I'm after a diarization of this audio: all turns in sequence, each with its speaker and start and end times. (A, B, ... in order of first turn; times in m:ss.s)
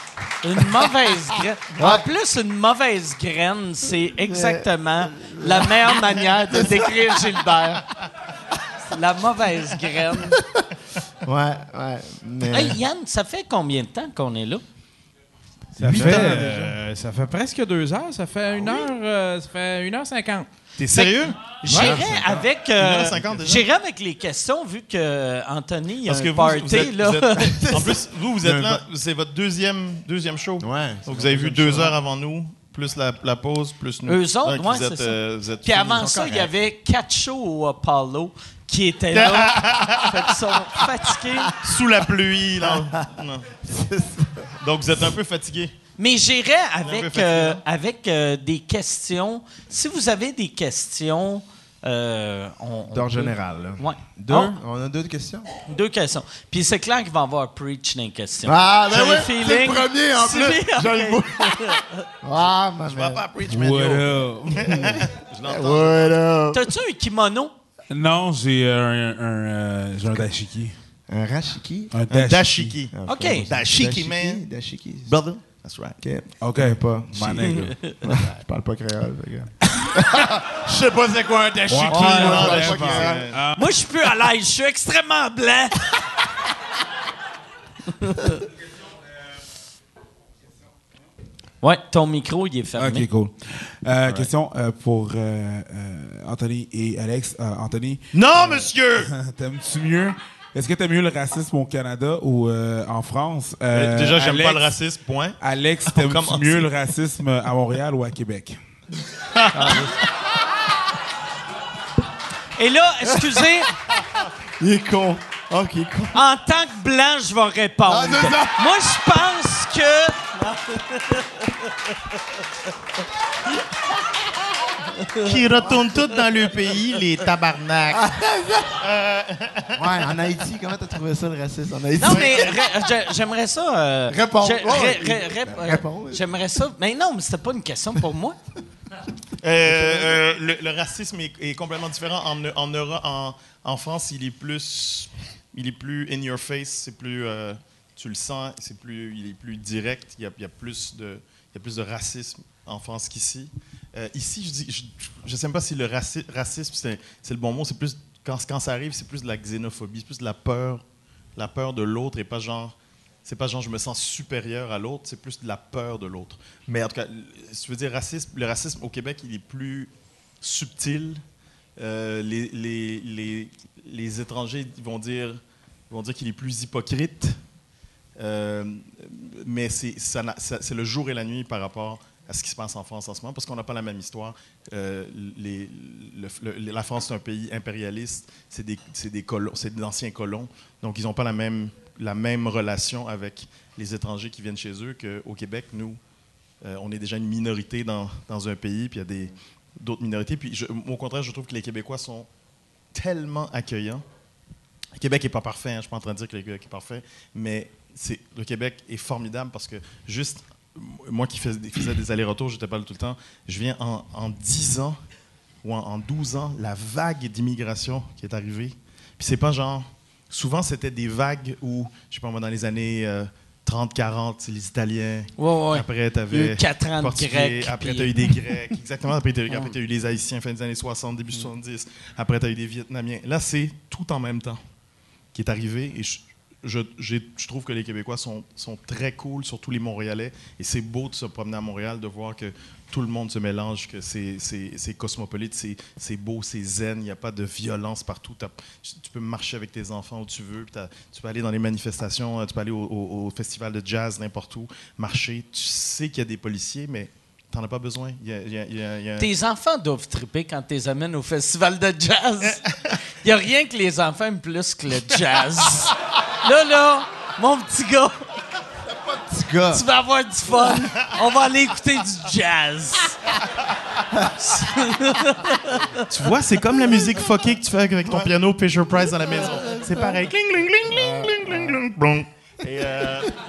0:00.4-0:07.9 A
0:00.6-0:02.0 B
0:04.3-0:07.8 B
0:08.9-0:10.4 A
0:10.3-0:10.6 B
0:11.2-0:12.8 B
0:12.5-0:14.6 A
0:15.8-0:16.6 B
0:15.8-0:20.5 C
0:15.8-0:16.7 D
0:20.8-0:21.4 D
0:20.9-0:27.8 A
0:21.6-0:22.4 B
0:21.7-0:22.0 C
0:22.7-0:23.6 D
0:26.0-0:36.1 D
0:27.6-0:28.8 B
0:30.6-0:31.9 B
0:34.1-0:41.5 A
0:35.9-0:36.5 B
0:39.1-0:40.3 D
0:41.6-0:43.6 D
0:42.6-0:43.1 B
0:43.6-0:44.6 B
0:44.6-0:45.7 D
0:46.0-0:54.6 A
0:46.8-0:47.6 D
0:52.9-0:55.5 B
0:55.6-1:01.9 A
0:58.4-1:03.2 B
1:02.9-1:06.2 D
1:03.5-1:04.9 E
1:04.6-1:06.7 B
1:06.5-1:07.5 A
1:07.9-1:10.8 E
1:11.1-1:11.9 B
1:11.9-1:12.8 E
1:12.1-1:14.4 D
1:12.9-1:15.2 B
1:13.0-1:13.5 A
1:15.0-1:16.0 D
1:16.0-1:23.3 B
1:16.4-1:18.0 E
1:21.7-1:23.8 E
1:21.9-1:23.0 C
1:21.9-1:23.4 D
1:23.5-1:26.0 A
1:31.6-1:33.0 A
1:32.8-1:44.7 E
1:38.1-1:39.1 D
1:43.7-1:46.7 D
1:45.4-1:48.6 E
1:49.1-1:50.1 D
1:49.5-1:49.9 B
1:52.6-1:53.8 A
1:53.0-1:56.2 B
1:56.1-2:01.2 A
1:57.8-1:58.9 B
2:05.2-2:08.1 D
2:05.6-2:05.9 B
2:07.9-2:08.8 B
2:08.8-2:10.0 D
2:09.7-2:12.6 B
2:12.0-2:18.4 A
2:12.1-2:12.6 D
2:14.1-2:16.2 B
2:19.4-2:40.8 D
2:19.6-2:20.2 B
2:41.4-2:49.9 D
2:50.4-2:51.2 D
2:51.8-2:57.4 D
2:58.2-3:16.0 D
3:16.6-3:22.3 D
3:22.9-3:24.0 D
3:25.0-3:35.0 D
3:35.6-3:54.6 D
3:45.4-3:48.1 A
3:55.3-4:19.3 D
4:19.2-4:22.6 A
4:22.4-4:23.0 D
4:23.2-4:28.3 A
4:28.8-4:29.8 B
4:29.7-4:33.2 A
4:34.3-4:36.0 A
4:36.1-4:43.3 D
4:39.5-4:40.1 B
4:40.8-4:41.8 B